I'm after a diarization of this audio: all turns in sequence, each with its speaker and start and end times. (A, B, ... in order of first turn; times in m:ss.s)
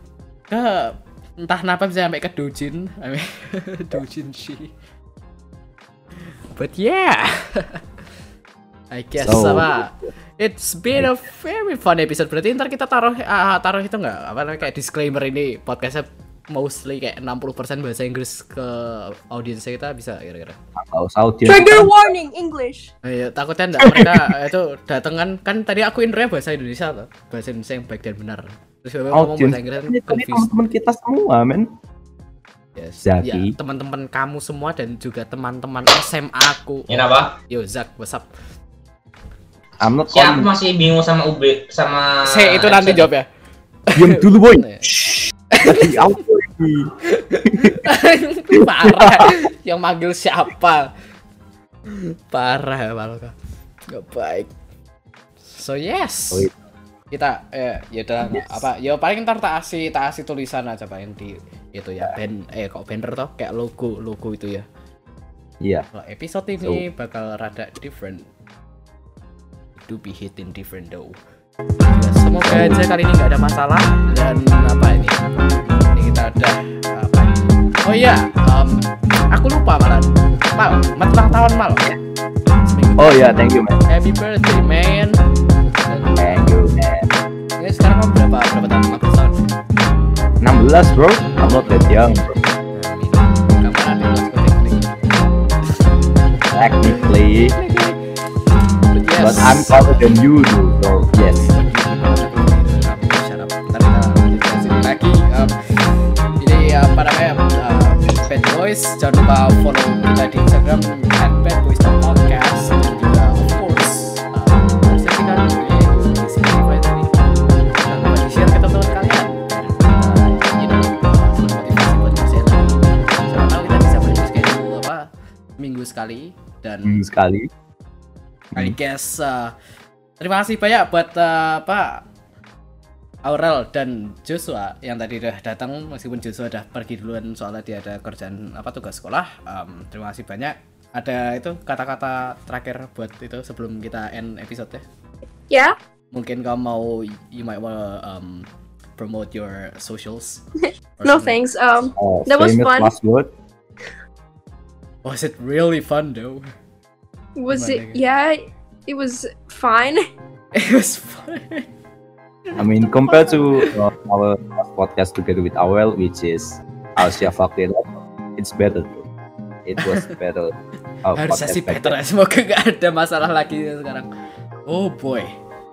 0:00.5-0:04.7 A
0:06.6-0:07.8 A
0:08.9-0:20.6 A
0:09.2-0:09.8 B
0:20.8-0:21.9 B
0:21.5-0:22.9 C
0:23.0-0:30.5 A
0:23.8-0:24.3 B
0:29.1-0:31.7 B
0:32.8-0:38.3 A
0:33.0-0:33.6 B
0:36.9-0:37.4 D
0:39.8-0:40.5 B
0:40.1-0:43.1 D
0:42.2-0:43.3 A
0:43.9-0:44.9 A
0:44.0-0:46.9 B
0:45.5-0:46.2 A
0:47.1-0:50.9 A
0:47.5-0:47.9 B
0:48.5-0:49.3 B
0:51.9-0:53.3 A
0:53.9-0:54.5 A
0:55.5-0:56.5 A
0:57.1-1:04.6 A
0:58.3-0:58.6 B
1:05.6-1:05.9 B
1:05.9-1:08.3 A
1:09.8-1:11.2 A
1:11.9-1:15.2 A
1:12.4-1:12.8 B
1:16.0-1:21.8 A
1:22.6-1:26.6 A
1:23.0-1:23.8 B
1:26.2-1:27.1 B
1:27.6-1:29.4 A
1:30.4-1:32.4 B
1:32.7-1:35.8 A
1:36.5-1:37.6 B
1:36.9-1:38.0 A
1:38.9-1:40.2 A
1:39.2-1:41.5 B
1:41.3-2:05.1 A
2:05.6-2:07.0 A
2:06.9-2:07.5 B
2:08.6-2:09.5 A
2:10.2-2:12.0 A
2:13.3-2:24.8 A
2:25.5-2:25.8 C
2:26.1-2:30.4 A
2:31.0-2:31.4 A
2:31.0-2:32.9 C
2:32.0-2:33.3 B
2:35.0-2:36.5 A
2:37.4-2:40.0 C
2:37.5-2:38.0 A
2:40.6-2:41.7 A
2:42.5-2:43.8 A
2:42.6-2:49.1 B
2:49.6-2:52.0 B
2:49.8-2:50.1 A
2:51.2-2:54.1 A
2:54.7-2:55.3 A